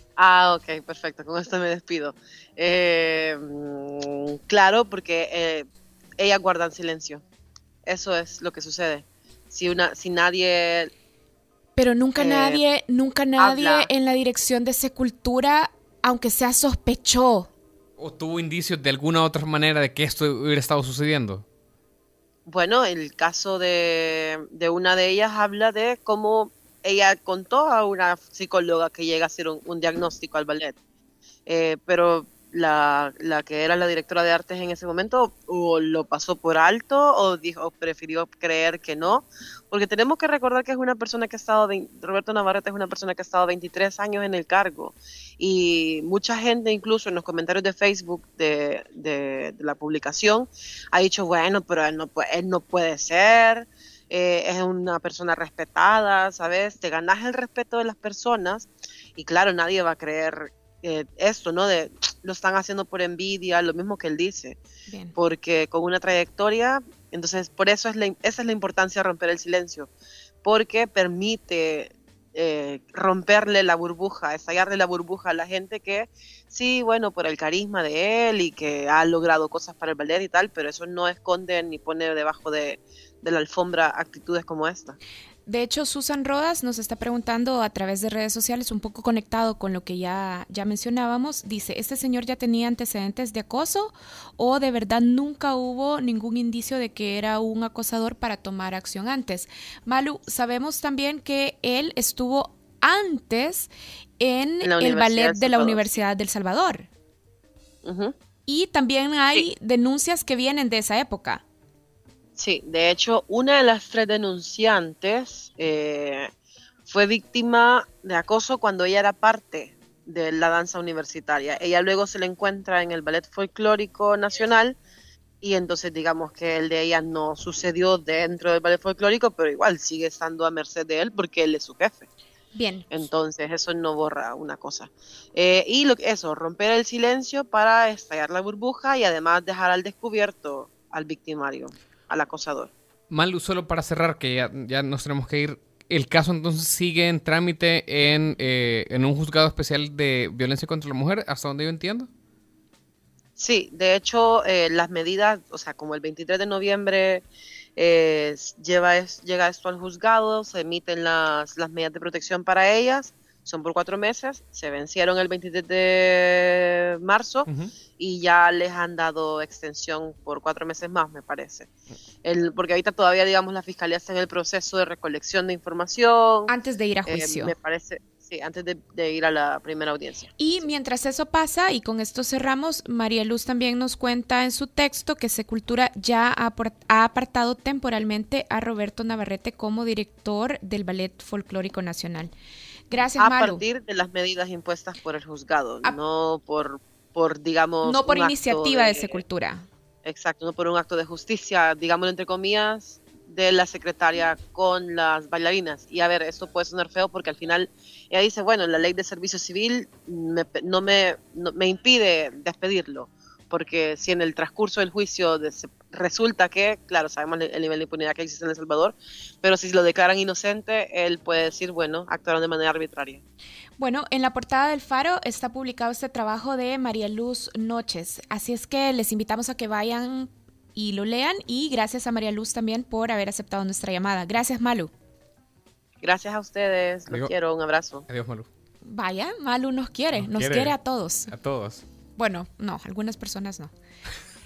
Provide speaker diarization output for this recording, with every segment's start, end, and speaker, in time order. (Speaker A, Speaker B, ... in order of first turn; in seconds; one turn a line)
Speaker A: 0.2-7.2
Speaker A: 7.8-10.9
Speaker B: 11.8-17.5
Speaker A: 12.2-12.6
Speaker A: 13.4-13.9
Speaker C: 18.0-21.4
Speaker A: 22.4-30.8
Speaker A: 31.4-64.6
Speaker B: 64.9-65.1
Speaker A: 65.1-69.9
Speaker A: 70.4-85.0
Speaker B: 85.5-106.9
Speaker A: 104.6-105.9
Speaker A: 107.8-108.1
Speaker B: 108.5-111.4
Speaker A: 112.4-116.3
Speaker A: 116.8-124.8
Speaker A: 125.4-132.1
Speaker B: 132.5-132.9
Speaker A: 132.9-142.7
Speaker C: 143.1-152.1
Speaker A: 153.4-157.2
Speaker A: 157.8-171.7
Speaker C: 167.4-167.7
Speaker A: 172.2-176.5
Speaker B: 176.5-177.5
Speaker A: 177.1-180.7
Speaker B: 180.4-192.3
Speaker B: 192.9-193.6
Speaker A: 193.1-199.2
Speaker B: 197.8-199.6
Speaker A: 200.0-223.2
Speaker B: 223.8-234.9
Speaker A: 236.0-238.1
Speaker C: 238.1-238.5
Speaker B: 238.8-241.3
Speaker C: 240.1-240.7
Speaker C: 241.3-241.8
Speaker B: 242.2-243.7